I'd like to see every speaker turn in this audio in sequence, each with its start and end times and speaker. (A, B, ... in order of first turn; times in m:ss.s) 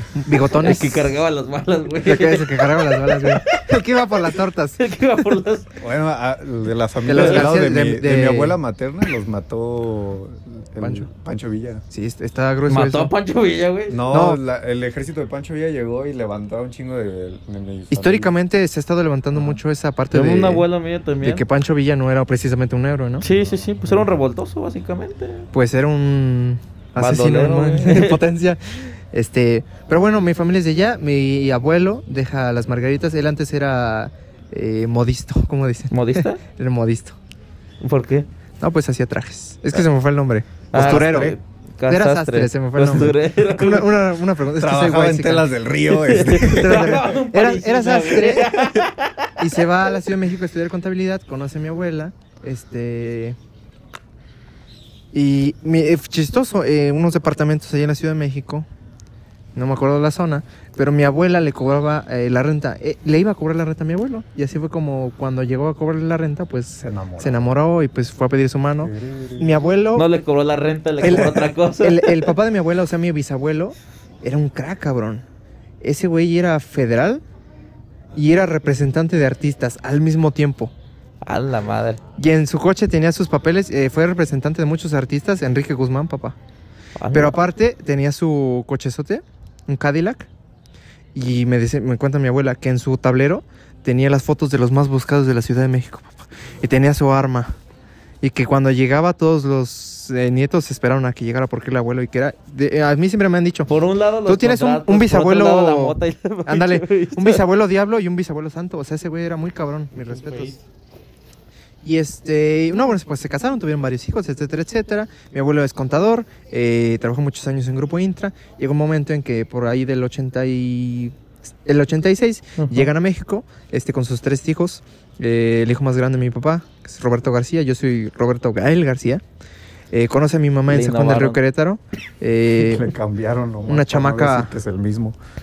0:00.1-0:01.1 A
0:00.6-0:03.6 B
0:02.0-0:04.8 A
0:04.8-0:05.7 B
0:05.8-0:11.8 C
0:07.0-0:08.6 A
0:07.1-0:07.5 B
0:10.8-0:11.1 A
0:11.9-0:13.1 A
0:12.7-0:14.0 B
0:13.9-0:18.3 C
0:14.1-0:14.4 A
0:17.9-0:20.7 A
0:20.1-0:21.4 B
0:21.2-0:23.2 A
0:23.2-0:25.5 B
0:25.5-0:37.2 A
0:27.0-0:28.2 B
0:35.9-0:36.4 B
0:37.8-0:38.3 B
0:38.6-0:41.4 A
0:40.7-0:43.9 B
0:41.9-0:45.5 A
0:44.6-0:47.0 C
0:45.9-0:49.4 B
0:46.4-0:48.8 A
0:49.4-0:53.4 A
0:55.1-0:58.7 A
0:59.5-1:10.0 A
1:06.8-1:07.5 C
1:08.8-1:09.7 C
1:09.9-1:12.3 B
1:11.0-1:15.2 A
1:15.8-1:17.2 A
1:18.1-1:20.7 A
1:21.2-1:22.0 B
1:22.2-1:26.4 A
1:27.0-1:27.4 B
1:27.1-1:30.3 A
1:31.1-1:37.5 A
1:38.2-1:43.7 A
1:43.7-1:47.4 B
1:44.2-1:50.6 A
1:50.1-1:50.5 B
1:51.8-2:01.1 A
2:01.6-2:09.2 A
2:02.6-2:02.8 B
2:09.9-2:12.9 A
2:10.7-2:11.4 B
2:12.6-2:15.2 C
2:13.7-2:14.5 A